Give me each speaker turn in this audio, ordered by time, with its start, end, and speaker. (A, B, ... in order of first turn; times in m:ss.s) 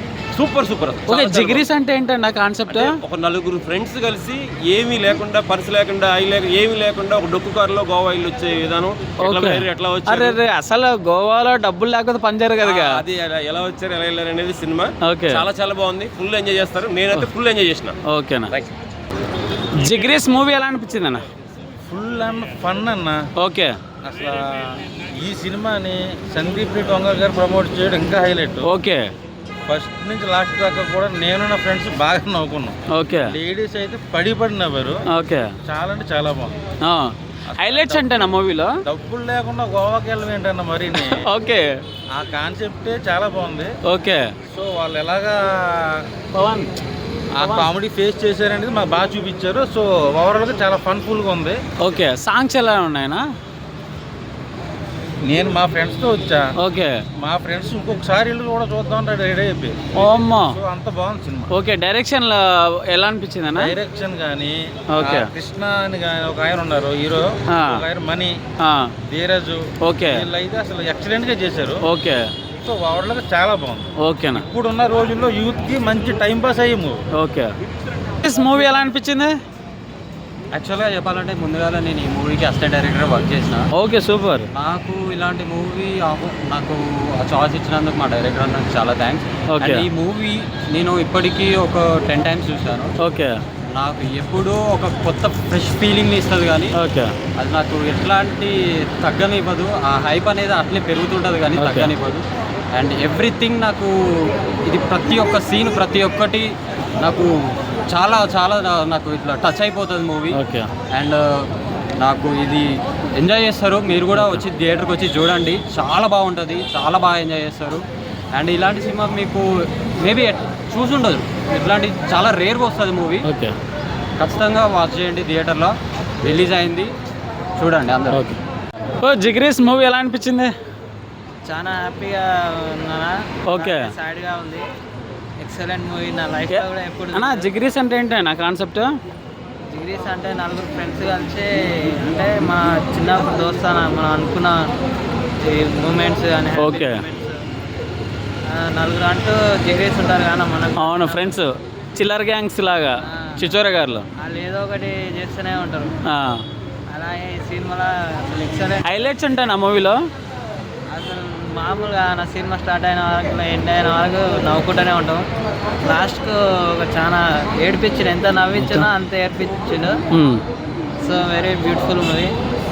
0:00.3-0:01.7 A
0:01.1-0:02.9 B
0:02.7-0:10.4 A
0:09.2-0:13.0 B
0:12.6-0:18.0 A
0:15.0-0:15.4 B
0:18.0-0:18.5 B
0:19.8-0:21.2 B
0:21.9-0:23.2 C
0:23.4-0:23.7 B
0:24.0-0:28.7 C
0:28.6-0:29.1 B
0:29.7-0:35.0 C
0:32.9-0:33.3 B
0:35.1-0:35.5 B
0:35.6-0:36.5 C
0:36.8-0:38.7 B
0:37.6-0:38.3 C
0:38.8-0:41.2 C
0:41.0-0:41.6 B
0:42.1-0:43.7 C
0:43.9-0:44.3 B
0:44.4-0:46.1 C
0:46.3-0:46.7 B
0:47.4-0:51.6 C
0:47.4-0:47.6 B
0:51.8-0:53.2 B
0:55.2-0:56.5 C
0:56.6-0:57.0 B
0:57.2-0:59.8 C
0:59.9-1:00.6 B
1:00.4-1:01.5 C
1:01.5-1:03.7 B
1:03.6-1:08.4 C
1:04.9-1:05.3 B
1:07.5-1:07.8 B
1:08.6-1:08.9 B
1:09.0-1:11.8 C
1:09.8-1:10.2 B
1:11.8-1:12.3 B
1:12.6-1:17.0 C
1:14.0-1:14.4 B
1:17.1-1:17.5 B
1:18.2-1:19.4 B
1:20.5-1:23.6 D
1:23.7-1:24.5 B
1:24.5-1:32.9 D
1:29.5-1:29.9 B
1:33.0-1:33.4 B
1:33.7-1:36.8 D
1:36.7-1:37.1 B
1:37.4-1:50.4 D
1:41.6-1:41.9 B
1:50.3-1:50.7 B
1:50.9-1:57.8 D
1:54.1-1:54.4 B
1:58.3-2:03.3 D
2:03.2-2:03.5 B
2:04.2-2:06.9 D
2:07.6-2:08.3 D
2:08.1-2:08.4 B
2:09.0-2:10.5 B
2:11.4-2:14.6 E
2:13.5-2:13.9 B
2:15.4-2:17.5 E
2:16.5-2:18.9 B
2:19.7-2:24.6 E
2:25.4-2:27.4 E
2:26.6-2:27.0 B
2:28.5-2:31.4 E
2:30.8-2:34.0 B
2:33.0-2:33.5 E
2:34.2-2:35.9 E
2:36.1-2:36.4 B
2:36.9-2:39.0 E
2:38.8-2:40.0 B
2:40.9-2:45.2 E
2:45.8-2:50.0 E
2:48.6-2:48.9 B
2:50.1-2:50.4 B
2:51.0-2:52.3 E